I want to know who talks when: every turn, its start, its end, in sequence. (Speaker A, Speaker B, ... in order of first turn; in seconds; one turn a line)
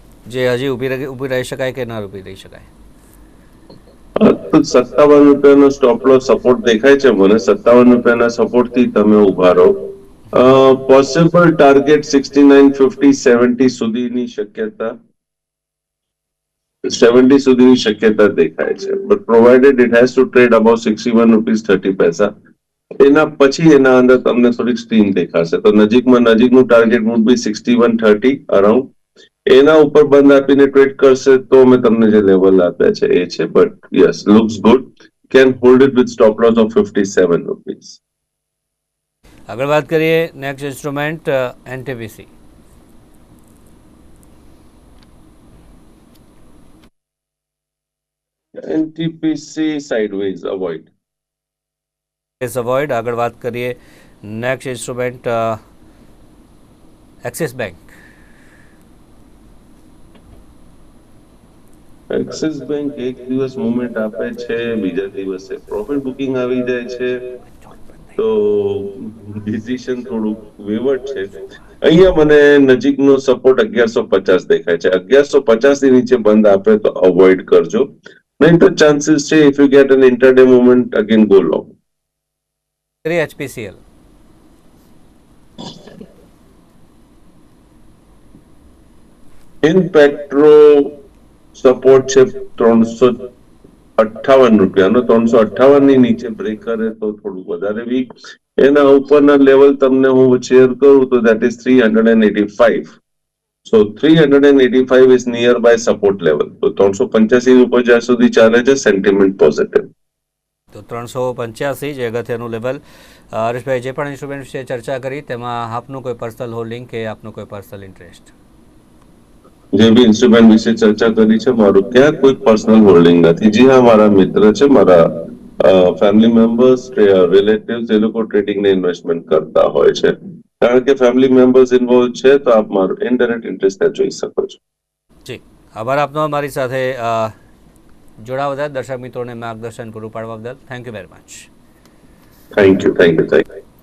Speaker A: 0.2-2.7
Speaker B: 4.2-14.9
Speaker B: 16.8-22.3
Speaker B: 23.0-28.9
Speaker B: 29.5-38.0
Speaker A: 39.5-42.3
Speaker B: 48.5-50.9
Speaker A: 52.4-55.6
Speaker A: 57.2-57.8
Speaker B: 62.1-67.3
Speaker B: 68.2-81.7
Speaker A: 83.0-83.8
Speaker B: 89.6-91.0
Speaker B: 91.5-93.3
Speaker B: 94.0-102.9
Speaker B: 103.6-109.9
Speaker A: 110.7-112.8
Speaker A: 113.3-118.3
Speaker B: 119.7-134.6
Speaker A: 135.2-137.3
Speaker A: 138.2-141.5
Speaker B: 142.5-143.4